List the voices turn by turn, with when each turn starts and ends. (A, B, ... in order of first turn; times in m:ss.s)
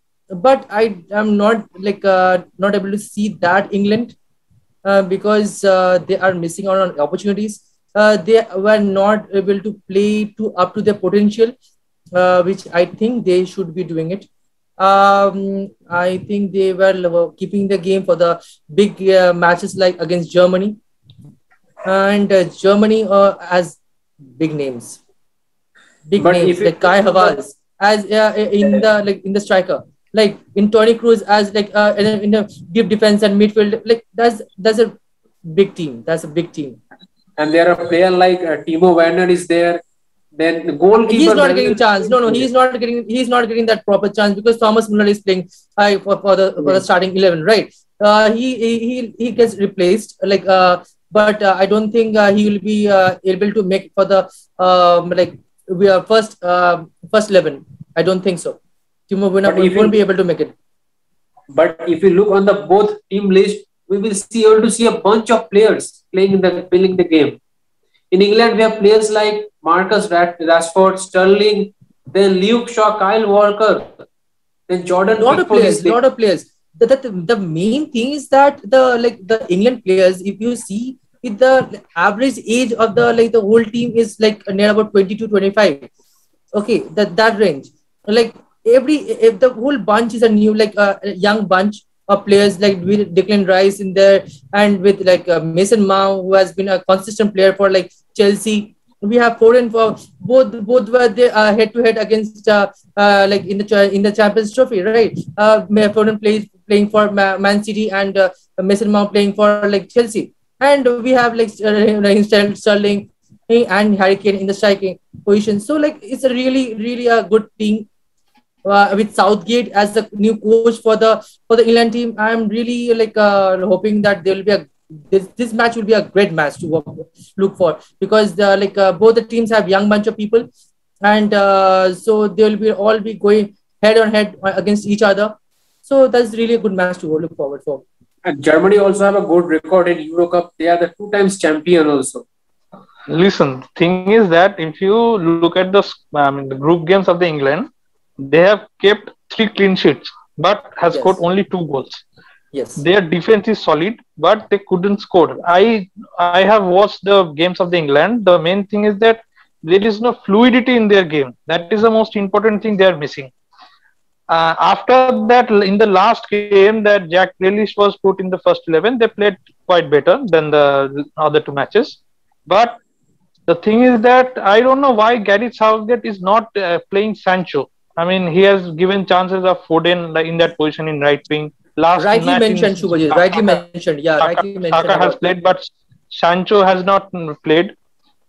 0:00.3-0:04.2 A
0:04.8-0:11.5 A
0:12.1-0:14.3 A
0:14.8-0:20.8 A
0:21.8-0:25.0 A
0:26.1-0:34.9 A
0:26.2-0:27.4 B
0:35.4-0:36.8 A
0:37.4-0:39.8 B
0:40.4-0:42.5 B
0:41.1-0:58.6 A
0:59.1-1:00.5 A
0:59.4-0:59.9 B
1:01.5-1:07.4 B
1:08.1-1:14.0 B
1:14.7-1:16.0 B
1:15.2-1:25.9 A
1:26.5-1:57.9 A
1:58.6-2:10.5 A
2:11.0-2:17.8 A
2:18.2-2:22.2 B
2:23.1-2:27.7 C
2:28.2-2:32.0 C
2:32.5-2:32.8 A
2:32.8-2:43.3 C
2:44.3-2:52.8 C
2:53.5-3:03.6 C
3:02.0-3:05.2 A
3:04.2-3:07.7 C